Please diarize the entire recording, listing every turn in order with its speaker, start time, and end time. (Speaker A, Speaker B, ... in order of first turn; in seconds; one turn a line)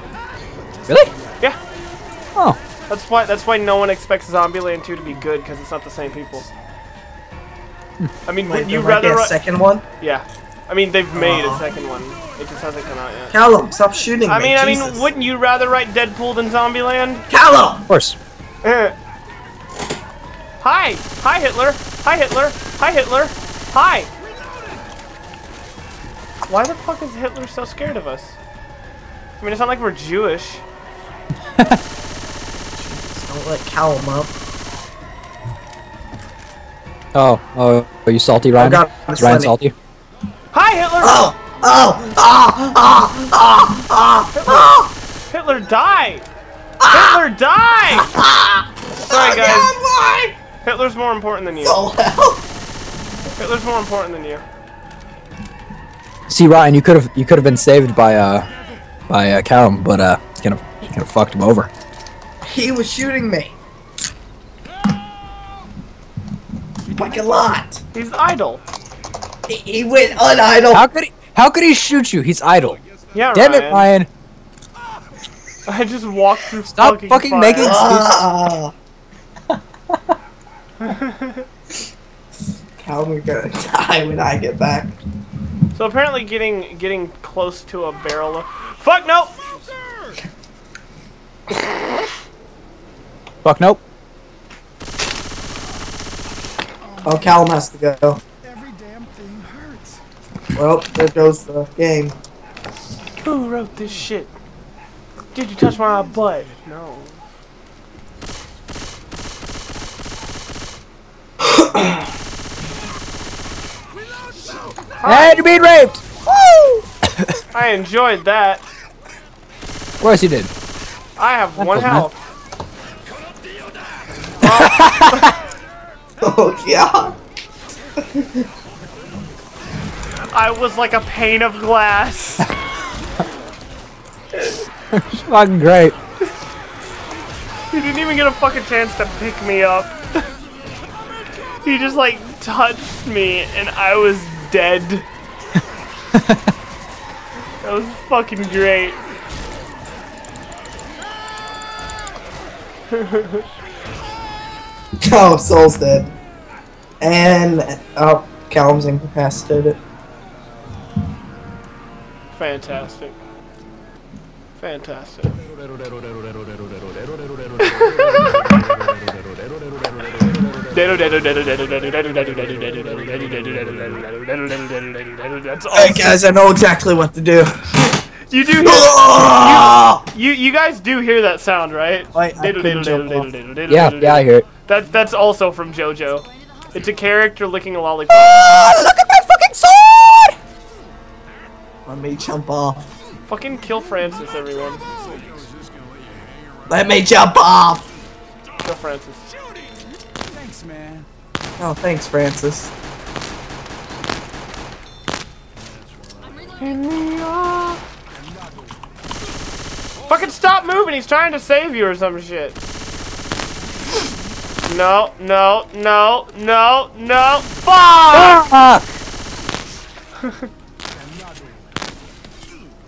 Speaker A: 0.9-1.1
Speaker B: 2.9-6.5
Speaker B: 8.3-9.4
Speaker C: 8.5-9.8
Speaker B: 10.0-13.3
Speaker C: 11.1-11.6
Speaker C: 13.3-15.0
Speaker B: 14.3-17.2
Speaker C: 17.3-17.9
Speaker A: 17.9-18.2
Speaker B: 18.6-18.9
Speaker B: 20.6-24.1
Speaker B: 26.5-28.4
Speaker B: 29.4-30.6
Speaker A: 31.6-31.8
Speaker C: 32.8-34.3
Speaker A: 37.1-39.7
Speaker C: 38.6-39.5
Speaker B: 40.5-41.3
Speaker C: 41.0-44.9
Speaker B: 44.4-46.3
Speaker C: 46.8-47.2
Speaker B: 46.9-48.1
Speaker C: 48.0-50.4
Speaker B: 49.0-49.7
Speaker B: 50.6-51.8
Speaker C: 51.6-52.4
Speaker B: 53.4-54.4
Speaker A: 56.3-58.5
Speaker A: 59.1-61.7
Speaker C: 62.5-63.5
Speaker C: 66.9-67.8
Speaker B: 67.9-68.6
Speaker C: 69.5-70.8
Speaker A: 70.7-72.8
Speaker B: 73.1-73.8
Speaker A: 73.3-74.1
Speaker B: 75.7-77.9
Speaker A: 76.7-78.2
Speaker C: 77.6-78.7
Speaker B: 80.8-81.5
Speaker C: 82.8-85.0
Speaker B: 85.8-89.4
Speaker A: 93.4-93.8
Speaker C: 97.0-98.2
Speaker C: 100.5-102.2
Speaker B: 103.2-104.3
Speaker B: 105.3-107.2
Speaker C: 111.4-112.0
Speaker B: 115.0-115.6
Speaker A: 115.0-116.0
Speaker C: 116.5-116.8
Speaker B: 117.5-118.6
Speaker A: 120.0-120.5
Speaker B: 121.2-122.2
Speaker A: 121.6-122.1
Speaker B: 124.4-125.3
Speaker A: 124.5-125.3
Speaker C: 126.2-127.1
Speaker C: 128.0-128.4
Speaker B: 130.3-132.5
Speaker B: 134.3-134.6
Speaker A: 134.9-136.0
Speaker B: 137.7-140.3
Speaker B: 141.6-145.1
Speaker A: 146.2-146.5
Speaker B: 147.6-149.0
Speaker B: 152.9-153.4
Speaker C: 155.0-156.1
Speaker C: 157.0-159.8
Speaker B: 162.4-163.2
Speaker B: 164.6-165.4
Speaker B: 167.6-168.7
Speaker B: 170.7-176.2
Speaker C: 175.7-177.6
Speaker B: 178.3-188.5
Speaker C: 178.6-180.0
Speaker C: 182.2-183.3
Speaker A: 183.7-184.5
Speaker A: 188.2-190.4
Speaker C: 191.9-192.9
Speaker B: 193.3-195.4
Speaker C: 196.7-197.9
Speaker B: 198.6-199.3
Speaker C: 201.6-202.7
Speaker B: 206.6-207.8
Speaker B: 210.1-212.6
Speaker B: 214.7-218.4
Speaker A: 218.1-218.8